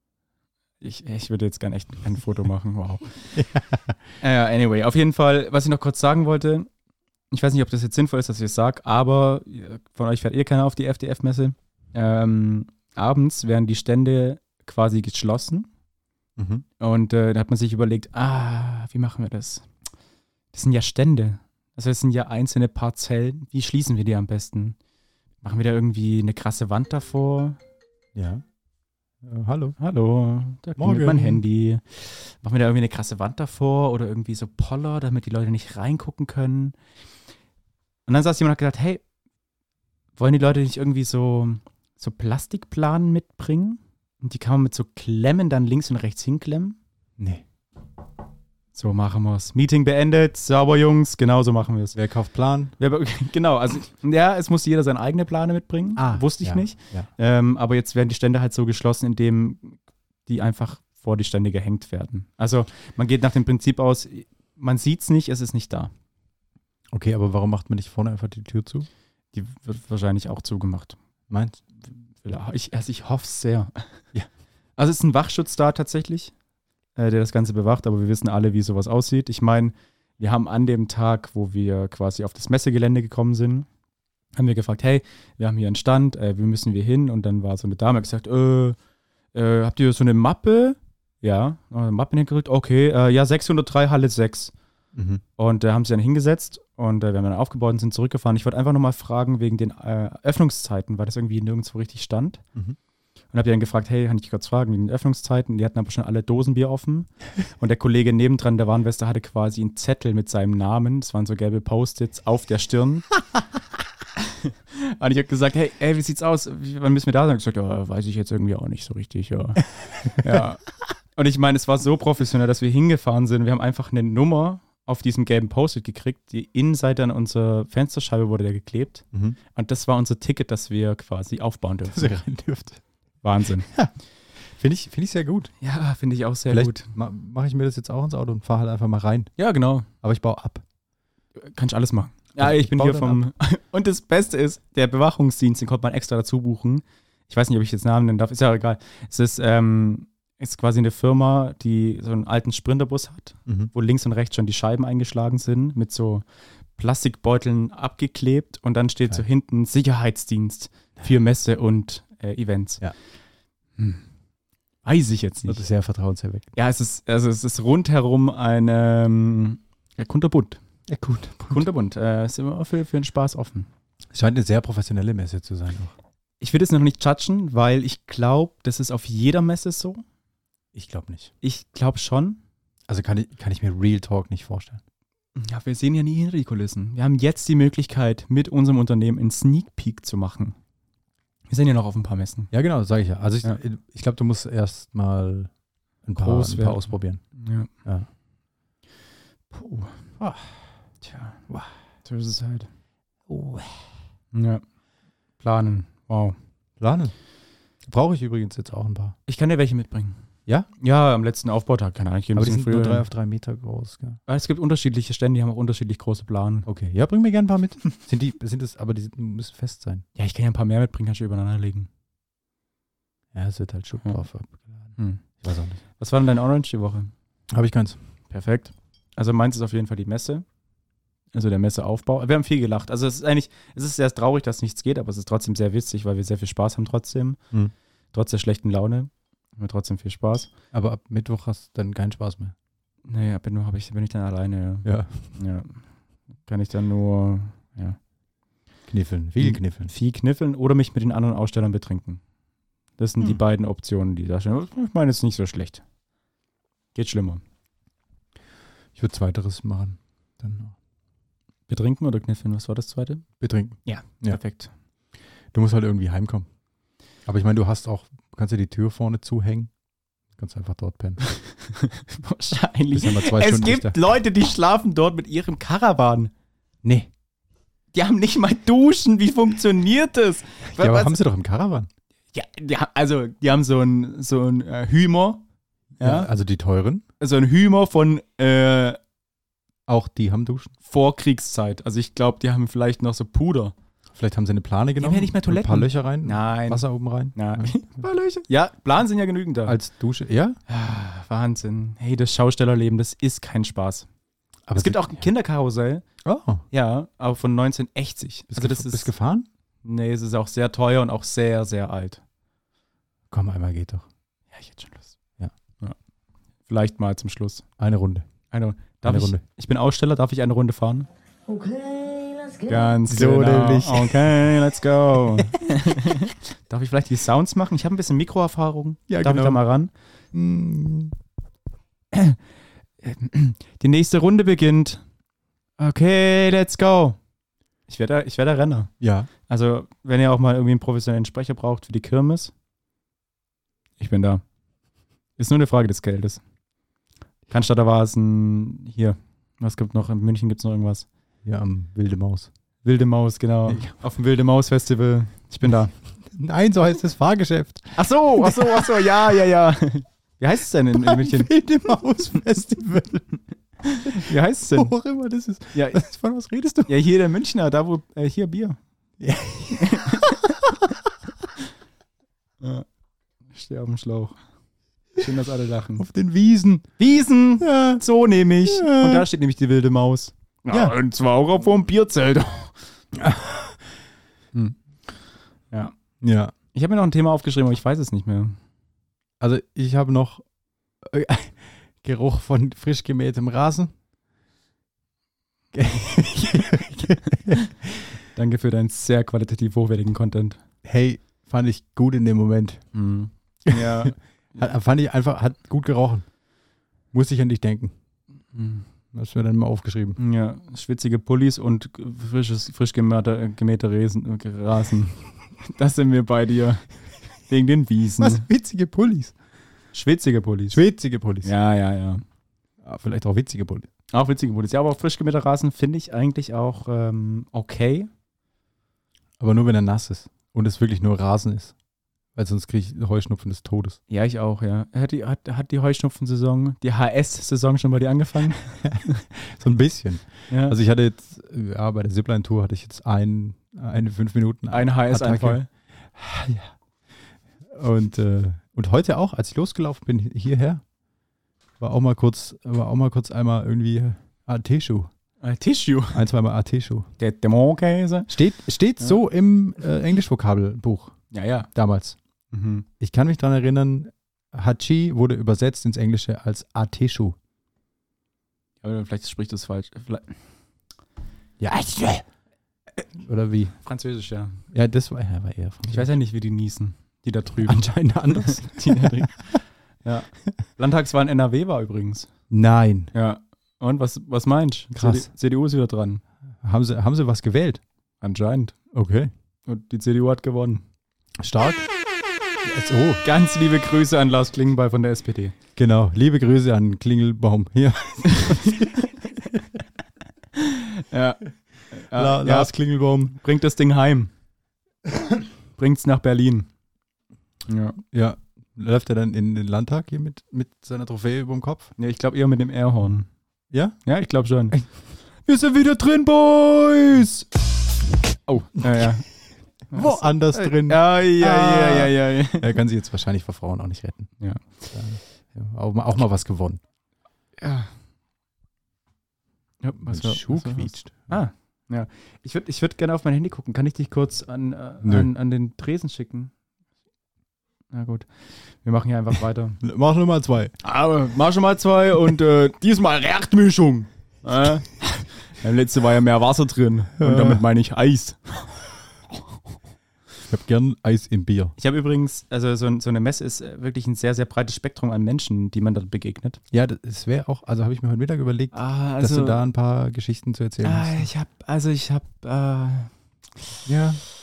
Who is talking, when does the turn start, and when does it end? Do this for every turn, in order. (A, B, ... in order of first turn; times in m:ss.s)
0:00.8-0:03.4 A
0:03.4-0:04.0 B
0:04.2-0:06.7 A
0:07.3-0:15.7 A
0:16.4-0:16.6 B
0:16.8-0:19.7 A
0:20.5-0:24.8 A
0:25.4-0:27.6 A
0:28.2-0:28.4 B
0:29.2-0:29.8 B
0:29.8-0:36.8 A
0:30.8-0:31.4 B
0:38.1-0:39.0 A
0:40.2-0:46.8 A
0:47.2-0:47.4 B
0:48.8-0:52.0 A
0:51.9-0:52.7 B
0:52.8-1:05.9 A
0:56.0-0:57.1 B
1:06.9-1:08.9 B
1:09.3-1:11.0 A
1:11.3-1:11.6 B
1:12.1-1:14.0 A
1:14.8-1:16.3 A
1:17.0-1:23.7 A
1:24.4-1:28.8 A
1:29.3-1:34.5 A
1:35.0-1:35.2 B
1:35.4-1:42.4 A
1:43.3-1:53.1 A
1:54.2-2:00.6 A
2:01.2-2:12.1 A
2:11.9-2:12.8 B
2:13.2-2:13.7 A
2:13.7-2:13.9 B
2:14.5-2:15.5 B
2:15.6-2:16.9 A
2:16.5-2:19.3 B
2:19.4-2:19.9 A
2:20.0-2:20.6 B
2:21.4-2:36.2 A
2:22.4-2:23.2 B
2:36.8-2:42.8 A
2:43.8-2:44.0 A
2:44.8-2:45.6 A
2:45.5-2:46.5 B
2:46.6-2:50.6 A
2:50.9-2:51.7 B
2:51.5-2:53.7 A
2:54.1-2:55.9 B
2:56.4-3:00.0 A
3:00.7-3:01.3 B
3:01.4-3:02.4 A
3:02.9-3:04.8 B
3:05.4-3:10.6 A
3:11.5-3:12.5 A
3:12.5-3:15.5 B
3:16.0-3:17.2 B
3:16.2-3:17.7 A
3:19.5-3:20.0 A
3:20.2-3:20.5 B
3:21.0-3:21.4 A
3:22.0-3:22.7 A
3:23.3-3:23.8 B
3:24.3-3:24.6 A
3:25.4-3:26.4 A
3:26.8-3:27.1 B
3:27.8-3:29.2 B
3:29.3-3:30.2 A
3:30.8-3:33.0 A
3:32.4-3:34.2 B
3:34.3-3:36.7 A
3:36.7-3:40.0 B
3:40.2-3:41.9 A
3:43.3-3:45.8 B
3:45.0-3:45.2 A
3:46.0-3:47.1 A
3:47.5-3:48.0 B
3:48.3-3:50.4 A
3:51.3-3:57.4 A
3:58.1-4:00.5 A
4:00.7-4:02.5 B
4:03.0-4:05.8 A
4:04.8-4:05.4 B
4:06.5-4:08.0 A
4:08.9-4:09.9 B
4:09.4-4:12.2 A
4:13.0-4:15.8 A
4:17.0-4:17.4 A
4:19.0-4:20.7 B
4:21.7-4:23.2 A
4:23.4-4:24.4 B
4:23.8-4:24.7 A
4:25.5-4:26.5 B
4:27.3-4:29.7 B
4:30.4-4:31.2 B
4:31.3-4:36.3 A
4:32.9-4:34.0 B
4:36.8-4:37.1 B
4:37.9-4:41.2 A
4:40.7-4:41.9 B
4:42.3-4:45.4 A
4:46.0-4:46.3 A
4:46.0-4:47.0 B
4:47.2-4:49.0 A
4:49.9-4:50.7 B
4:50.9-4:53.7 A
4:54.1-4:57.8 B
4:55.0-4:59.8 A
4:59.7-5:00.6 B
5:00.7-5:04.1 A
5:04.7-5:05.3 B
5:04.7-5:06.0 A
5:06.2-5:06.6 B
5:06.7-5:09.1 A
5:08.5-5:09.5 B
5:09.8-5:12.2 A
5:13.3-5:14.0 B
5:14.5-5:15.1 A
5:16.7-5:17.6 A
5:17.8-5:18.3 B
5:18.5-5:21.1 A
5:19.0-5:19.4 B
5:22.6-5:29.9 A
5:23.1-5:24.5 B
5:29.1-5:29.6 B
5:30.3-5:31.2 B
5:32.1-5:32.4 A
5:33.0-5:35.0 A
5:35.8-5:37.2 A
5:37.9-5:38.9 A
5:39.0-5:39.3 B
5:39.5-5:42.5 A
5:44.0-5:44.4 A
5:45.4-5:46.4 A
5:47.5-5:51.1 A
5:51.4-5:52.5 B
5:52.8-5:55.9 A
5:53.7-5:53.9 B
5:56.3-5:59.0 B
5:58.0-6:01.5 A
6:01.0-6:03.4 B
6:03.8-6:04.9 A
6:04.0-6:06.9 B
6:05.7-6:06.1 A
6:06.9-6:08.8 A
6:09.2-6:11.0 B
6:09.8-6:10.6 A
6:13.5-6:14.4 A
6:15.2-6:16.0 A
6:16.0-6:16.9 B
6:17.0-6:22.8 A
6:17.6-6:18.0 B
6:18.6-6:19.3 B
6:23.1-6:23.8 B
6:24.5-6:24.8 A
6:26.2-6:26.5 B
6:26.7-6:28.6 A
6:29.4-6:30.4 B
6:31.0-6:33.9 B
6:35.7-6:38.1 B
6:38.3-6:40.6 A
6:40.8-6:42.8 B
6:42.9-6:44.2 A
6:43.7-6:46.3 B
6:47.1-6:47.9 B
6:48.5-6:48.9 A
6:49.1-6:50.2 B
6:50.2-6:56.9 A
6:57.5-6:58.4 A
6:58.2-6:59.3 B
6:59.9-7:00.8 A
7:00.7-7:01.5 B
7:01.4-7:02.2 A
7:02.8-7:03.9 B
7:04.1-7:08.1 A
7:09.4-7:11.7 B
7:12.4-7:14.0 B
7:14.1-7:19.2 A
7:18.8-7:26.7 B
7:20.5-7:20.8 A
7:24.7-7:25.7 A
7:27.6-7:30.8 B
7:31.8-7:35.1 B
7:35.4-7:36.2 A
7:36.1-7:37.1 B
7:37.2-7:38.3 A
7:38.3-7:41.2 B
7:41.3-7:41.7 A
7:41.7-7:42.2 B
7:42.5-7:42.9 A
7:43.0-7:47.4 B
7:48.8-7:50.4 A
7:51.6-7:52.2 B
7:53.1-7:53.8 B
7:53.8-7:54.6 A
7:54.7-7:56.1 B
7:55.9-8:02.3 A
7:57.7-7:59.3 B
8:02.5-8:03.1 B
8:03.1-8:06.2 A
8:05.0-8:05.3 B
8:06.6-8:07.8 B
8:08.2-8:08.8 A
8:08.9-8:09.3 B
8:09.7-8:10.8 A
8:11.4-8:11.9 B
8:12.6-8:13.2 B
8:13.2-8:15.5 A
8:15.8-8:19.6 B
8:18.3-8:19.1 A
8:20.6-8:22.7 A
8:22.1-8:23.4 B
8:23.3-8:24.3 A
8:25.8-8:26.7 A
8:27.7-8:28.0 A
8:28.1-8:31.9 B
8:32.0-8:33.3 A
8:33.7-8:34.0 B
8:34.0-8:34.8 A
8:35.4-8:37.5 A
8:38.5-8:39.3 A
8:39.9-8:42.7 A
8:39.9-8:44.3 B
8:44.9-8:46.8 B
8:47.6-8:47.9 A
8:49.8-8:56.5 A
8:50.0-8:51.3 B
8:55.0-8:55.3 B
8:57.9-8:58.3 A
8:58.8-8:59.8 A
8:59.8-9:00.7 B
9:00.8-9:08.9 A
9:07.2-9:07.6 B
9:10.5-9:11.8 B
9:11.8-9:16.6 A
9:16.7-9:21.3 B
9:18.7-9:19.6 A
9:20.8-9:23.1 A
9:23.9-9:24.2 B